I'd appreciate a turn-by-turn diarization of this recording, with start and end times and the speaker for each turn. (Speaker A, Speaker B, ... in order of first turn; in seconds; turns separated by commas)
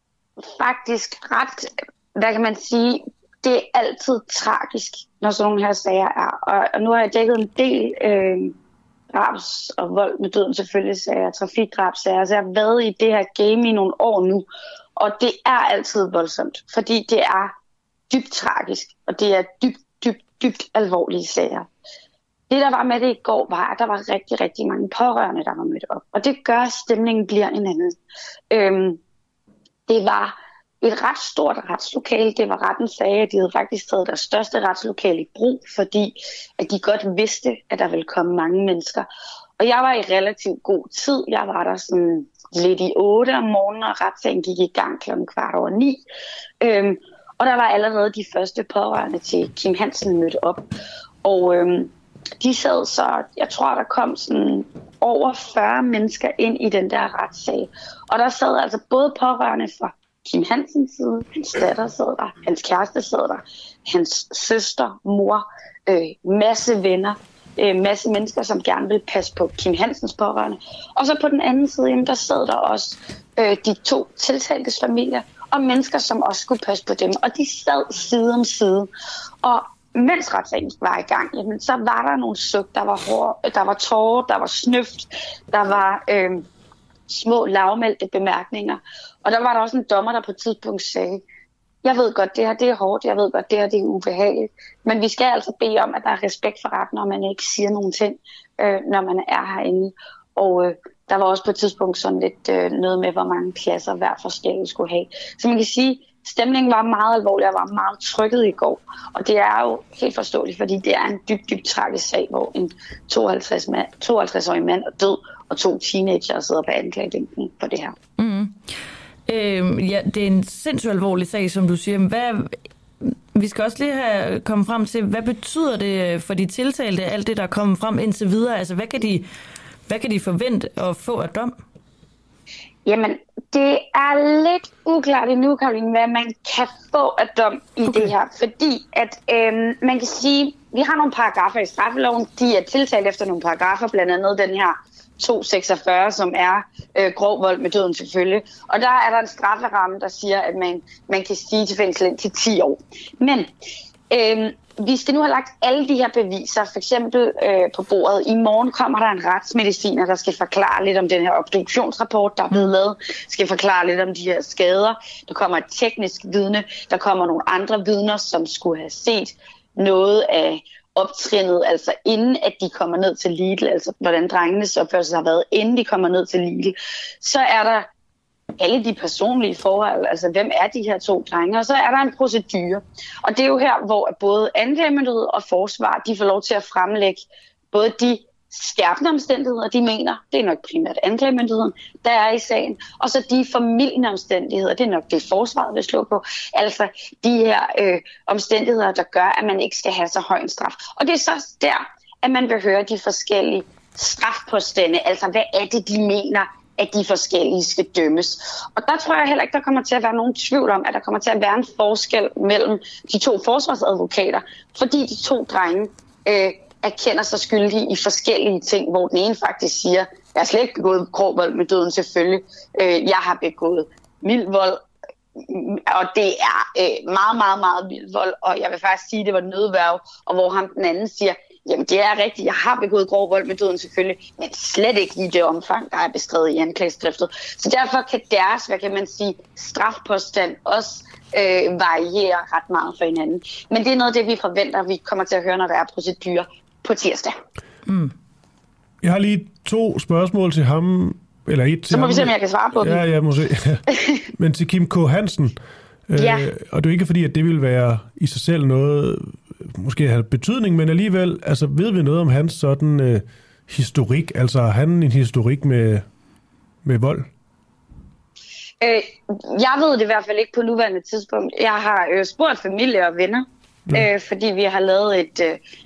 Speaker A: 0.4-8.6, Speaker A: 9.1-14.4, Speaker A: 15.0-17.5, Speaker A: 18.1-21.7, Speaker A: 22.5-27.9, Speaker A: 28.5-29.0, Speaker A: 29.9-39.0, Speaker A: 39.6-46.0, Speaker A: 46.6-50.6, Speaker A: 51.2-78.9, Speaker A: 79.4-86.5, Speaker A: 87.1-91.2, Speaker A: 91.8-117.9, Speaker B: 118.2-118.5, Speaker B: 119.3-122.5, Speaker B: 123.0-129.2, Speaker B: 129.9-131.5, Speaker A: 132.8-153.5, Speaker B: 137.9-138.1, Speaker A: 154.1-177.9, Speaker A: 178.6-224.8, Speaker A: 225.4-247.3, Speaker B: 247.9-248.1, Speaker C: 249.0-255.5, Speaker A: 251.9-253.0, Speaker C: 256.1-266.0, Speaker A: 256.1-256.5, Speaker C: 266.8-267.2, Speaker A: 268.8-275.6